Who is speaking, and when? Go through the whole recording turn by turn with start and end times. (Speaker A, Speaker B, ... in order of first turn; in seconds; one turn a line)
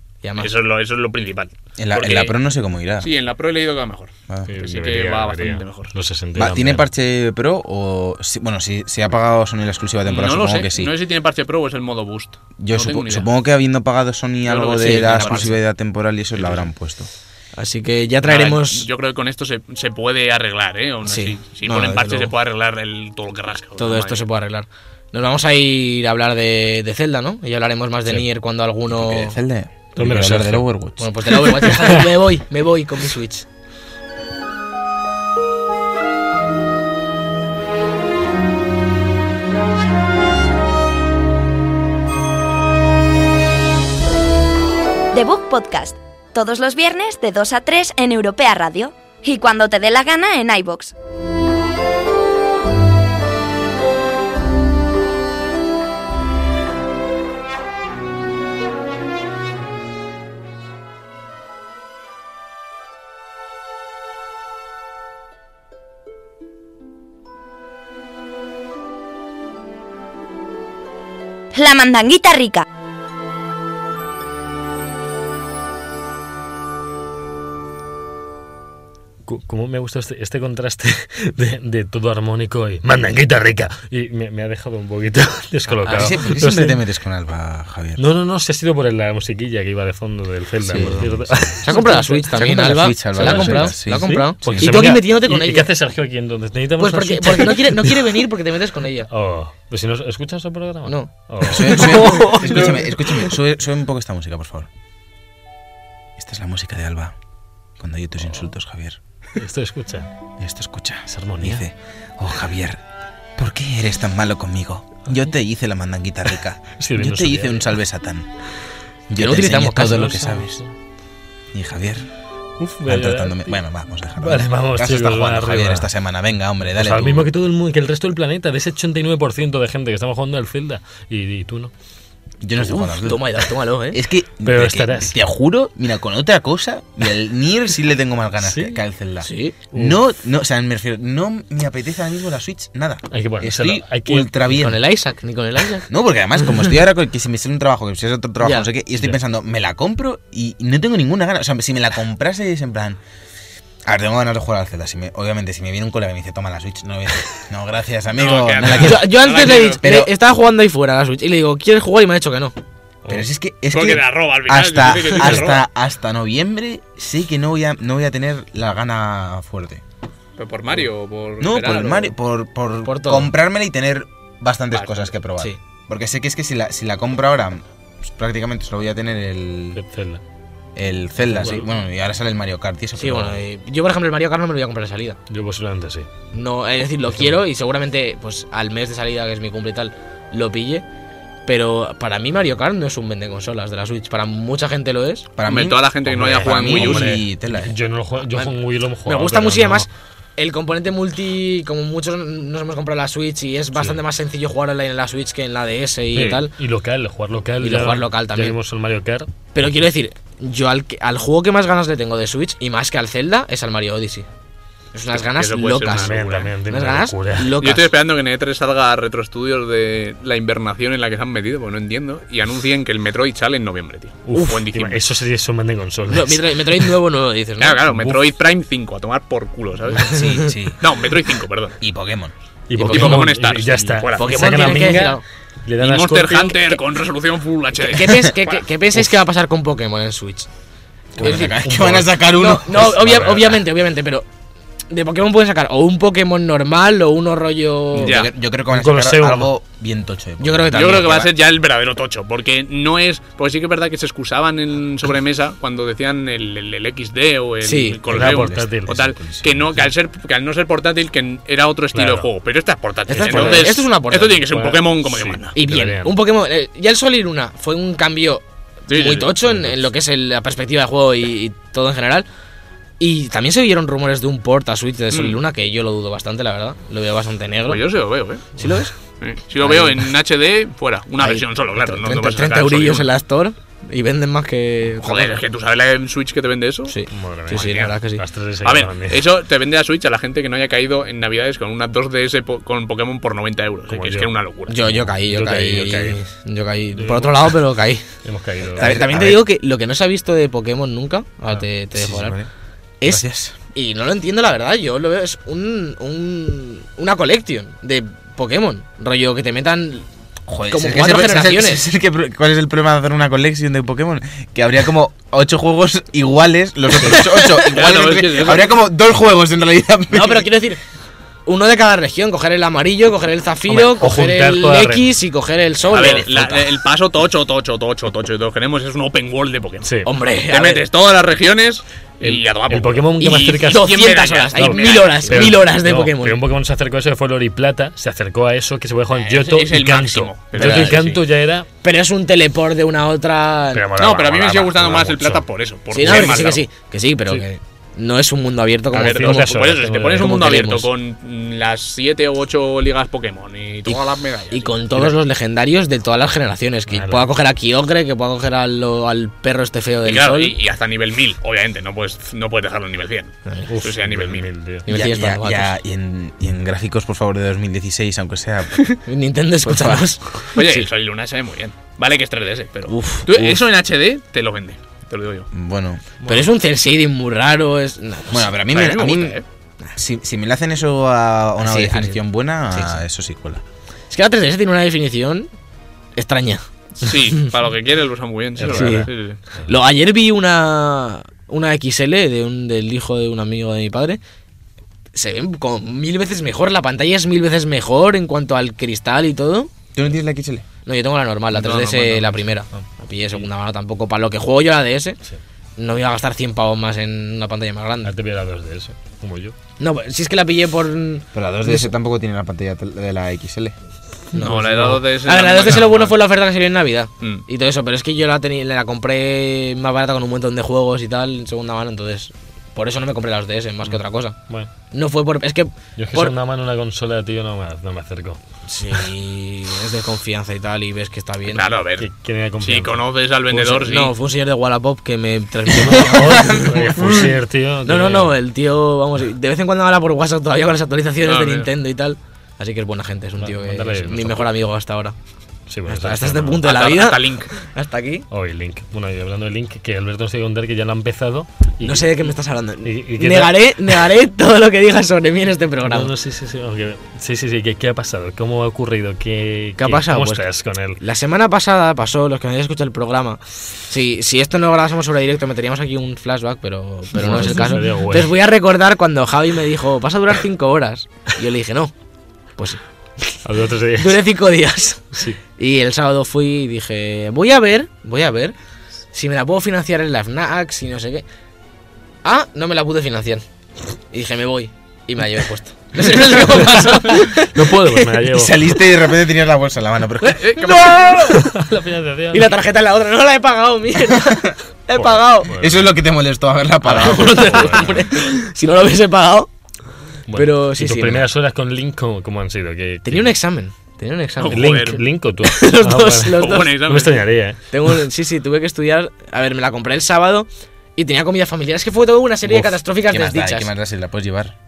Speaker A: 0.2-0.5
Speaker B: 0.4-2.3
Speaker C: 1.8-3.1
Speaker B: 3.0-5.9
Speaker D: 4.5-6.8
Speaker C: 6.3-10.9
Speaker B: 10.1-13.3
Speaker C: 12.6-17.1
Speaker B: 14.4-15.5
Speaker A: 14.8-15.6
Speaker B: 16.4-16.7
Speaker A: 17.6-18.9
Speaker B: 18.2-24.2
Speaker A: 21.0-22.3
Speaker C: 21.6-22.3
Speaker A: 23.8-29.4
Speaker C: 28.9-31.4
Speaker D: 29.9-30.7
Speaker A: 31.0-33.5
Speaker D: 31.6-32.0
Speaker E: 45.1-50.9
Speaker E: 71.5-72.6
Speaker D: 79.2-86.8
Speaker C: 85.9-88.0
Speaker D: 88.0-92.3
Speaker C: 90.6-94.7
Speaker A: 91.6-95.7
Speaker D: 93.1-98.2
Speaker A: 96.8-99.1
Speaker D: 99.1-102.7
Speaker A: 100.8-102.8
Speaker C: 101.5-104.7
Speaker C: 106.2-107.1
Speaker C: 107.8-109.0
Speaker D: 109.4-110.1
Speaker C: 110.4-112.8
Speaker D: 111.1-111.6
Speaker C: 113.4-118.3
Speaker D: 116.8-117.8
Speaker C: 119.1-120.6
Speaker A: 119.2-120.2
Speaker D: 119.8-120.7
Speaker C: 121.5-122.1
Speaker D: 122.6-123.6
Speaker C: 122.8-127.3
Speaker D: 124.2-125.9
Speaker D: 126.7-131.7
Speaker C: 132.4-133.3
Speaker A: 132.7-134.0
Speaker C: 133.9-144.8
Speaker D: 134.4-135.2
Speaker D: 138.4-138.8
Speaker A: 139.2-139.5
Speaker D: 139.7-140.0
Speaker D: 143.1-144.4
Speaker A: 144.5-145.9
Speaker C: 145.9-153.0
Speaker A: 146.4-146.7
Speaker A: 148.4-148.7
Speaker C: 153.8-160.1
Speaker B: 158.1-159.8
Speaker A: 158.6-162.5
Speaker C: 163.1-169.8
Speaker B: 163.7-165.6
Speaker B: 170.4-172.1
Speaker C: 171.4-179.8
Speaker A: 172.8-173.3
Speaker B: 174.7-175.1
Speaker D: 179.7-180.2
Speaker C: 180.8-183.4
Speaker D: 181.3-181.6
Speaker A: 183.0-185.2
Speaker D: 185.3-186.1
Speaker A: 186.3-190.8
Speaker A: 191.4-195.3
Speaker C: 195.3-197.8
Speaker B: 195.4-197.2
Speaker D: 196.4-199.9
Speaker A: 199.0-206.5
Speaker D: 206.1-209.7
Speaker A: 207.6-208.6
Speaker A: 209.5-214.3
Speaker A: 214.9-217.9
Speaker B: 215.1-216.5
Speaker D: 215.8-217.6
Speaker B: 217.6-225.0
Speaker D: 224.2-226.9
Speaker A: 226.1-227.8
Speaker B: 227.6-230.2
Speaker D: 227.8-228.2
Speaker A: 230.0-230.5
Speaker C: 230.1-230.8
Speaker B: 230.8-231.8
Speaker C: 231.8-232.3
Speaker D: 232.7-236.7
Speaker A: 232.8-233.3
Speaker B: 232.9-234.6
Speaker A: 234.2-235.2
Speaker B: 235.8-238.6
Speaker A: 237.8-240.5
Speaker D: 241.2-242.2
Speaker C: 241.2-243.6
Speaker A: 241.2-241.5
Speaker A: 242.3-244.2
Speaker A: 244.9-248.2
Speaker C: 248.0-251.3
Speaker B: 248.0-248.3
Speaker D: 248.7-249.5
Speaker A: 250.4-251.2
Speaker B: 250.7-265.6
Speaker A: 257.6-258.0
Speaker C: 258.1-259.8
Speaker D: 258.1-259.2
Speaker D: 261.9-262.3
Speaker A: 263.1-264.5
Speaker D: 263.1-263.8
Speaker D: 264.4-266.2
Speaker A: 265.5-272.2
Speaker B: 268.9-269.3
Speaker D: 269.4-269.8
Speaker A: 273.0-277.8
Speaker B: 275.1-275.4
Speaker B: 277.6-278.4
Speaker A: 278.5-278.9
Speaker B: 279.2-283.1
Speaker A: 279.6-280.1
Speaker A: 281.2-285.4
Speaker B: 285.0-286.9
Speaker A: 286.9-288.2
Speaker D: 287.1-289.2
Speaker B: 287.5-287.9
Speaker B: 288.6-294.8
Speaker D: 293.9-296.2
Speaker A: 294.7-298.1
Speaker D: 296.9-297.6
Speaker D: 298.2-299.0
Speaker C: 298.7-299.4
Speaker A: 298.8-302.4
Speaker C: 301.9-302.5
Speaker A: 303.0-310.1
Speaker C: 303.1-303.5
Speaker C: 310.5-320.5
Speaker A: 310.7-311.8
Speaker A: 316.9-317.8
Speaker B: 317.7-318.7
Speaker A: 320.1-320.8
Speaker A: 321.4-326.3
Speaker D: 323.7-325.1
Speaker C: 325.9-326.7
Speaker B: 325.9-329.9
Speaker D: 329.8-330.1
Speaker A: 330.0-330.9
Speaker B: 330.5-335.6
Speaker D: 332.2-341.7
Speaker A: 333.2-336.4
Speaker B: 339.1-341.2
Speaker A: 340.5-341.0
Speaker A: 341.8-343.9
Speaker D: 343.7-345.4
Speaker B: 343.9-346.6
Speaker A: 345.9-350.9
Speaker D: 346.0-346.4
Speaker D: 348.9-350.6
Speaker B: 348.9-355.1
Speaker A: 353.8-360.5
Speaker D: 356.9-357.3
Speaker B: 360.0-364.5
Speaker D: 363.7-364.9
Speaker A: 364.9-365.7
Speaker C: 364.9-368.8
Speaker A: 369.1-370.9
Speaker B: 370.5-375.5
Speaker A: 372.9-373.6
Speaker C: 375.5-376.0
Speaker A: 376.2-378.5
Speaker C: 378.3-379.4
Speaker B: 378.7-379.4
Speaker C: 379.9-383.6
Speaker A: 381.6-383.0
Speaker A: 384.1-385.5
Speaker A: 386.1-387.4
Speaker B: 387.0-389.4
Speaker D: 388.6-389.6
Speaker A: 388.6-389.1
Speaker A: 389.6-394.2
Speaker A: 395.1-399.7
Speaker C: 399.9-400.6
Speaker A: 400.9-405.2
Speaker B: 401.5-402.4
Speaker A: 405.8-408.1
Speaker D: 408.0-409.5
Speaker A: 409.8-411.9
Speaker C: 411.3-413.7
Speaker A: 414.3-424.4
Speaker D: 414.4-415.0
Speaker B: 414.4-416.2
Speaker D: 423.8-424.7
Speaker A: 424.9-426.3
Speaker D: 426.0-428.4
Speaker A: 428.7-431.7
Speaker B: 431.5-432.1
Speaker D: 432.0-433.0
Speaker B: 432.6-434.1
Speaker A: 433.5-437.3
Speaker D: 435.7-438.3
Speaker A: 437.8-445.1
Speaker B: 441.2-441.7
Speaker D: 443.4-444.5
Speaker D: 445.7-446.6
Speaker A: 445.9-448.2
Speaker B: 446.6-447.5
Speaker D: 448.3-452.3
Speaker A: 451.8-456.1
Speaker D: 452.8-454.1
Speaker D: 455.8-461.0
Speaker A: 459.8-460.5
Speaker A: 461.0-471.9
Speaker D: 467.2-468.3
Speaker A: 472.6-473.4
Speaker D: 473.4-474.2
Speaker A: 473.9-478.5
Speaker A: 479.1-481.2
Speaker A: 482.2-483.4
Speaker A: 484.1-488.1
Speaker D: 486.2-488.7
Speaker C: 488.3-490.9
Speaker A: 490.3-491.6
Speaker B: 490.4-491.2
Speaker D: 491.3-492.5
Speaker A: 492.3-495.5
Speaker C: 494.1-494.5
Speaker D: 494.9-495.9
Speaker C: 495.5-498.1
Speaker A: 496.8-499.5
Speaker D: 497.2-498.0
Speaker D: 500.3-503.3
Speaker A: 500.3-501.3
Speaker A: 503.0-504.9
Speaker B: 504.4-505.0
Speaker D: 504.4-507.9
Speaker A: 505.4-506.8
Speaker B: 506.3-507.3
Speaker A: 507.7-513.7
Speaker C: 512.5-514.5